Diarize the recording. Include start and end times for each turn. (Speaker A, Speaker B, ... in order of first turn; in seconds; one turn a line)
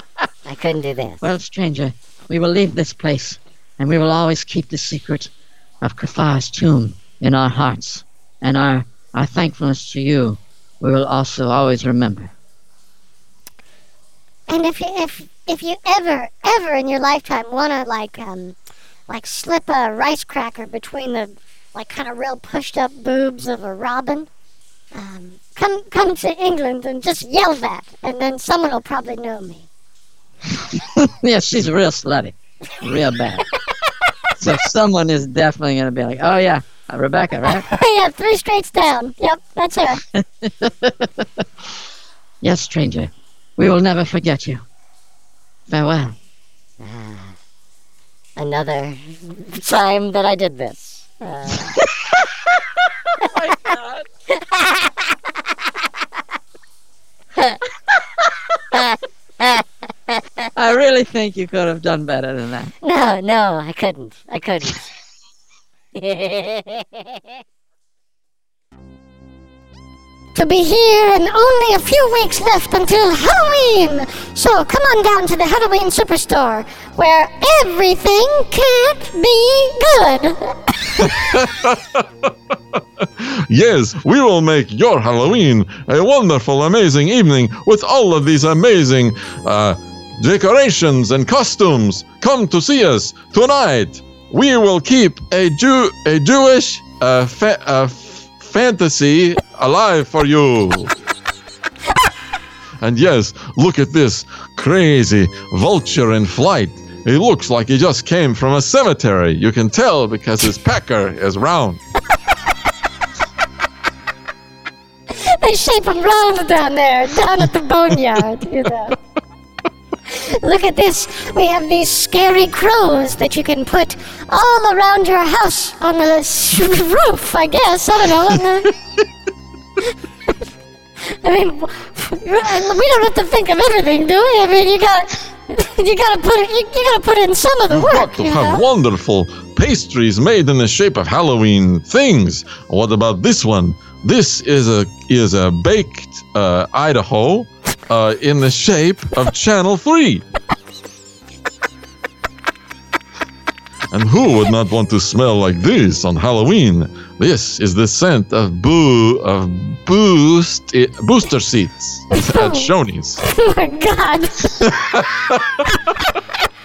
Speaker A: 0.4-1.2
Speaker B: 1.2-12.3
Speaker C: 14.5-18.6
Speaker C: 19.1-24.3
Speaker C: 24.9-29.7
Speaker B: 30.5-33.4
Speaker B: 34.4-37.6
Speaker C: 37.7-40.0
Speaker B: 40.1-41.4
Speaker B: 42.4-44.6
Speaker B: 45.7-46.2
Speaker A: 46.8-47.4
Speaker A: 48.4-51.8
Speaker B: 51.5-54.0
Speaker A: 54.3-55.1
Speaker A: 57.4-57.6
Speaker A: 58.7-60.5
Speaker B: 60.5-62.7
Speaker A: 62.8-64.8
Speaker A: 65.9-67.2
Speaker C: 70.3-81.2
Speaker D: 81.0-82.0
Speaker D: 83.2-100.9
Speaker D: 102.8-111.8
Speaker C: 115.1-119.0
Speaker C: 120.1-128.7
Speaker C: 131.0-138.7
Speaker D: 137.7-150.2
Speaker D: 153.9-163.2
Speaker C: 162.1-164.7
Speaker D: 164.6-165.7